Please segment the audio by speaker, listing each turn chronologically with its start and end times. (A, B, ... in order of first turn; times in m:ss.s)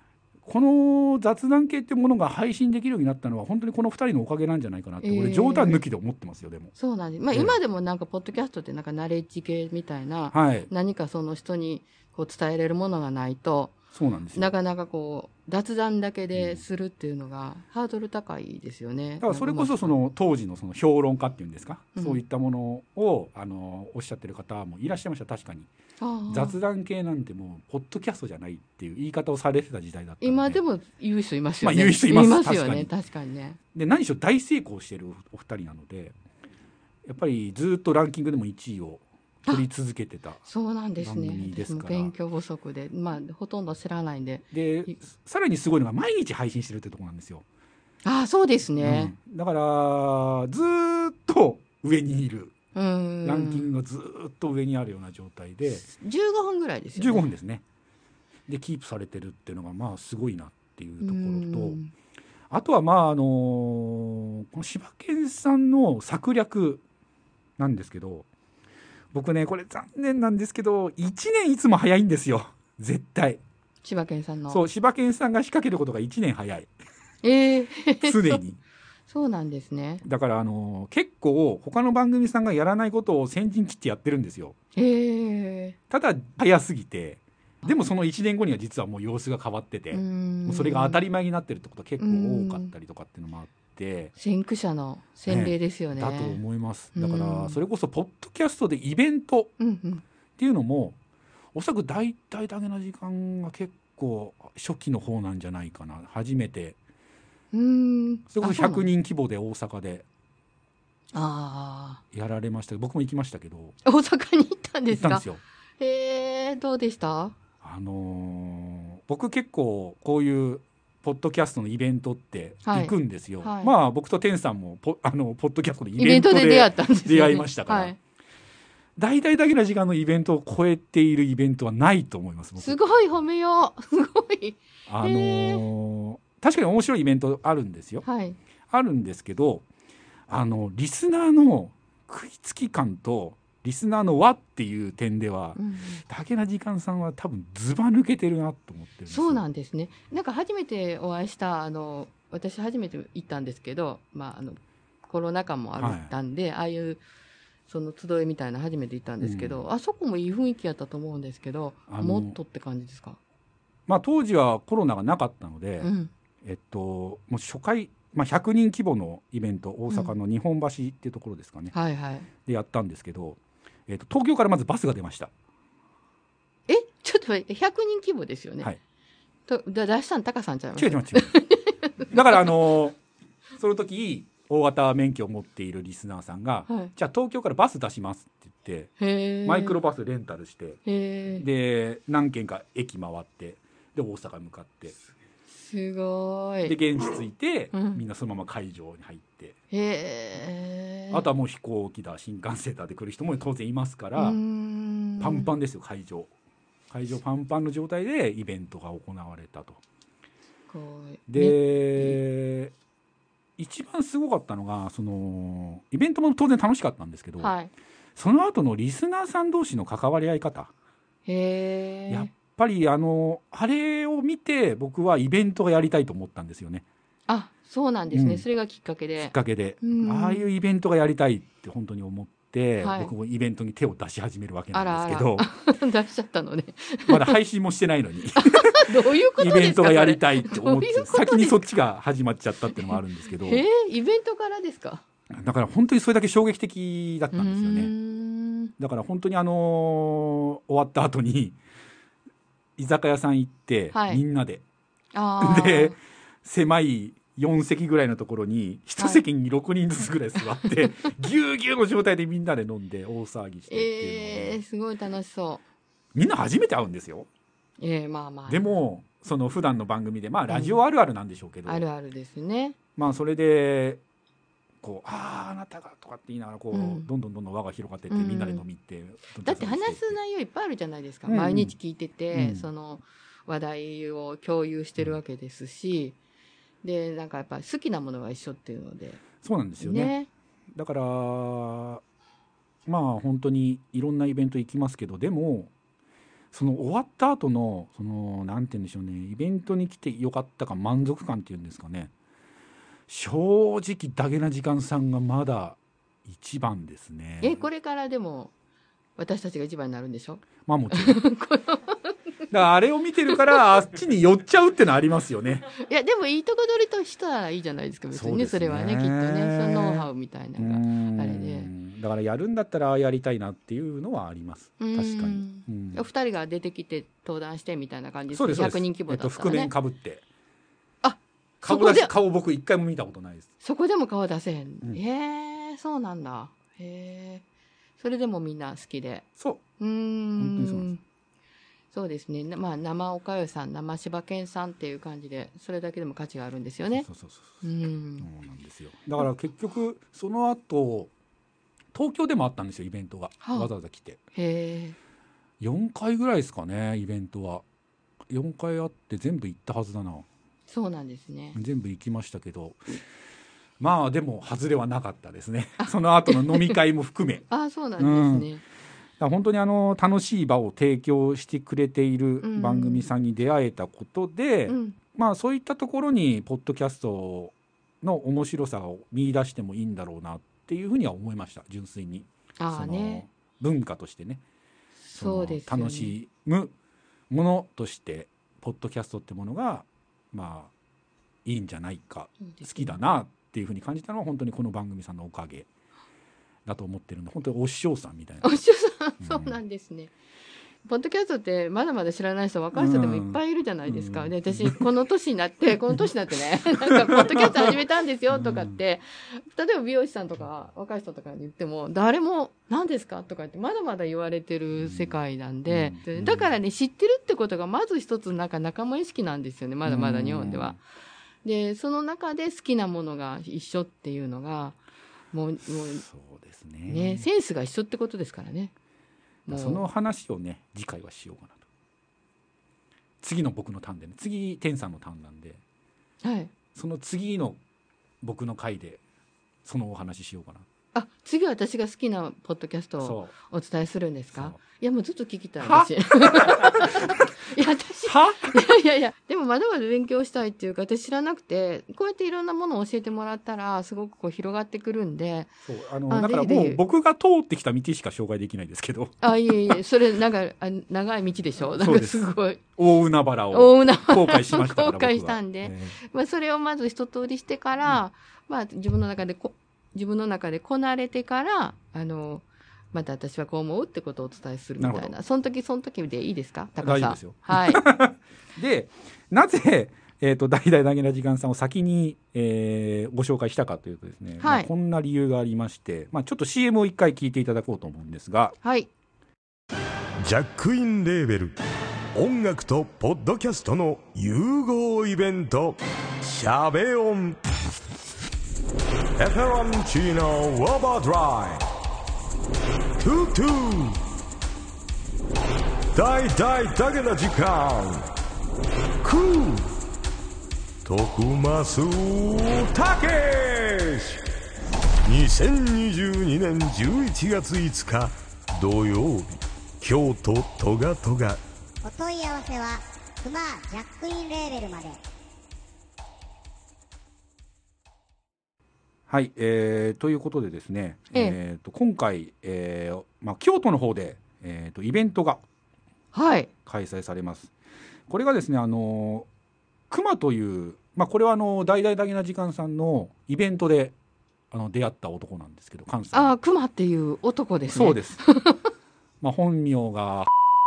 0:00.4-0:06.7 A
0:05.0-0:05.8 B
0:06.8-0:13.8 B
0:10.3-0:10.7 A
0:13.9-0:14.5 A
0:14.3-0:19.9 B
0:16.3-0:16.6 A
0:19.2-0:25.7 A
0:22.0-0:22.2 B
0:26.0-0:26.6 B
0:26.3-0:30.6 A
0:30.2-0:33.6 B
0:31.6-0:32.9 A
0:33.7-0:36.2 A
0:37.0-0:40.4 A
0:40.5-0:45.0 B
0:41.0-0:42.1 A
0:44.5-0:47.4 A
0:48.0-0:49.1 B
0:48.8-0:52.6 A
0:52.8-0:53.7 B
0:53.2-0:55.9 A
0:55.9-0:57.3 B
0:57.0-0:57.6 A
0:58.5-1:01.8 A
1:01.0-1:01.9 B
1:02.5-1:06.8 A
1:07.6-1:08.3 A
1:09.1-1:13.4 A
1:13.8-1:14.6 B
1:14.5-1:16.7 A
1:17.2-1:18.4 B
1:18.0-1:18.6 A
1:19.1-1:20.0 B
1:20.0-1:24.6 A
1:24.8-1:25.8 B
1:25.9-1:34.1 A
1:29.9-1:31.0 B
1:32.0-1:32.7 B
1:34.2-1:36.4 B
1:35.3-1:39.5 A
1:37.0-1:37.6 B
1:39.6-1:40.0 B
1:40.4-1:41.0 A
1:41.5-1:46.8 A
1:47.5-1:48.9 B
1:48.3-1:50.0 A
1:51.1-1:52.0 B
1:52.1-1:53.8 A
1:53.8-1:55.2 B
1:54.9-1:55.4 A
1:55.8-1:57.4 B
1:57.6-2:08.0 A
2:02.6-2:03.7 B
2:06.0-2:08.0 B
2:09.0-2:12.8 A
2:12.6-2:15.6 B
2:14.9-2:18.0 A
2:18.0-2:18.4 B
2:18.7-2:19.6 A
2:20.3-2:29.4 A
2:25.6-2:26.0 B
2:29.1-2:37.0 B
2:35.8-2:36.1 A
2:37.7-2:43.2 B
2:39.2-2:39.6 A
2:41.9-2:42.4 A
2:43.9-2:45.9 A
2:45.8-2:46.1 B
2:46.4-2:51.7 A
2:51.7-2:52.3 B
2:52.4-2:55.3 A
2:56.7-2:58.7 B
2:59.5-3:02.5 B
3:00.8-3:01.3 A
3:02.1-3:03.0 A
3:03.6-3:08.9 A
3:09.0-3:09.8 B
3:09.4-3:10.8 A
3:10.8-3:11.4 B
3:11.4-3:15.0 A
3:15.5-3:16.8 B
3:16.6-3:19.6 A
3:17.7-3:18.0 B
3:19.7-3:21.2 B
3:21.1-3:24.4 A
3:24.2-3:25.5 B
3:25.2-3:26.3 A
3:26.9-3:29.8 A
3:30.7-3:32.2 B
3:31.3-3:32.7 A
3:33.6-3:37.5 A
3:37.4-3:37.7 B
3:38.2-3:40.7 A
3:41.3-3:42.3 B
3:42.1-3:46.8 A
3:47.3-3:50.5 B
3:48.1-3:48.4 A
3:49.2-3:55.5 A
3:52.8-3:53.1 B
3:54.7-3:57.4 B
3:57.1-4:03.6 A
3:58.4-4:01.7 B
4:02.8-4:05.0 B
4:05.3-4:07.9 A
4:07.3-4:08.7 B
4:08.8-4:11.6 A
4:12.8-4:14.6 A
4:13.9-4:14.2 B
4:15.1-4:16.0 B
4:15.4-4:24.6 A
4:19.0-4:19.2 B
4:23.7-4:25.6 B
4:26.2-4:27.3 A
4:27.8-4:28.6 B
4:28.5-4:31.8 A
4:30.5-4:30.8 B
4:31.7-4:32.8 B
4:33.0-4:34.0 A
4:34.8-4:40.2 A
4:36.7-4:37.1 B
4:38.1-4:38.6 B
4:39.4-4:46.2 B
4:41.3-4:41.8 A
4:42.3-4:42.7 A
4:46.8-4:49.2 B
4:49.4-4:50.1 A
4:49.8-4:50.3 B
4:50.7-4:52.0 A
4:52.9-4:55.7 A
4:56.5-5:02.1 A
5:03.1-5:07.6 A
5:07.4-5:08.5 B
5:09.2-5:12.1 B
5:10.7-5:11.2 A
5:12.5-5:15.7 A
5:15.8-5:21.7 B
5:18.1-5:26.0 A
5:24.8-5:29.7 B
5:28.3-5:30.2 A
5:31.0-5:32.1 B
5:31.6-5:33.5 A
5:33.6-5:37.4 B
5:38.0-5:39.3 B
5:39.4-5:39.6 A
5:39.8-5:41.0 B
5:40.4-5:40.9 A
5:41.9-5:47.1 B
5:46.9-5:47.6 A
5:47.6-5:48.3 B
5:48.2-5:51.1 A
5:51.9-5:54.2 A
5:53.4-5:53.7 B
5:54.4-5:55.0 B
5:55.6-5:57.6 A
5:58.3-6:00.3 A
6:00.7-6:01.6 B
6:01.5-6:02.8 A
6:03.8-6:07.5 A
6:05.8-6:06.8 B
6:07.5-6:08.6 B
6:08.0-6:08.5 A
6:09.2-6:24.4 A
6:12.4-6:13.1 B
6:14.7-6:15.0 B
6:22.6-6:23.2 B
6:25.1-6:26.2 B
6:25.1-6:26.7 A
6:27.3-6:30.7 A
6:31.4-6:35.7 A
6:32.4-6:33.0 B
6:36.7-6:38.6 A
6:38.4-6:40.1 B
6:39.2-6:39.6 A
6:40.8-7:00.8 B
6:42.7-6:44.9 A
6:46.8-6:47.8 A
6:48.3-6:48.8 A
6:54.8-6:56.6 A
6:59.8-7:00.8 A
7:01.4-7:04.8 B
7:05.3-7:06.0 B
7:05.7-7:07.3 A
7:06.9-7:08.7 B
7:09.5-7:09.8 B
7:09.5-7:11.6 A
7:13.2-7:15.6 A
7:16.2-7:16.5 B
7:16.7-7:17.6 A
7:18.2-7:19.0 A
7:19.6-7:20.7 A
7:20.9-7:35.5 B
7:23.0-7:23.3 A
7:24.3-7:24.6 A
7:25.6-7:27.2 A
7:28.0-7:28.6 A
7:35.6-7:39.8 A
7:36.1-7:36.8 B
7:39.2-7:42.6 B
7:41.7-7:46.0 A
7:43.5-7:57.8 B
7:54.8-7:55.1 A
7:56.8-8:08.6 A
8:04.4-8:04.7 B
8:08.6-8:08.9 B
8:10.2-8:11.6 C
8:12.2-8:17.4 C
8:19.2-8:21.6 C
8:23.0-8:24.0 C
8:25.9-8:28.1 C
8:29.0-8:29.7 C
8:30.8-8:34.2 C
8:35.0-8:41.4 C
8:41.8-8:45.0 D
8:49.1-8:55.4 A
8:56.1-8:56.5 B
8:56.7-8:57.5 A
8:58.1-8:59.3 A
8:59.9-9:04.0 A
9:04.5-9:06.4 A
9:06.1-9:08.6 B
9:07.7-9:08.2 A
9:09.2-9:10.3 A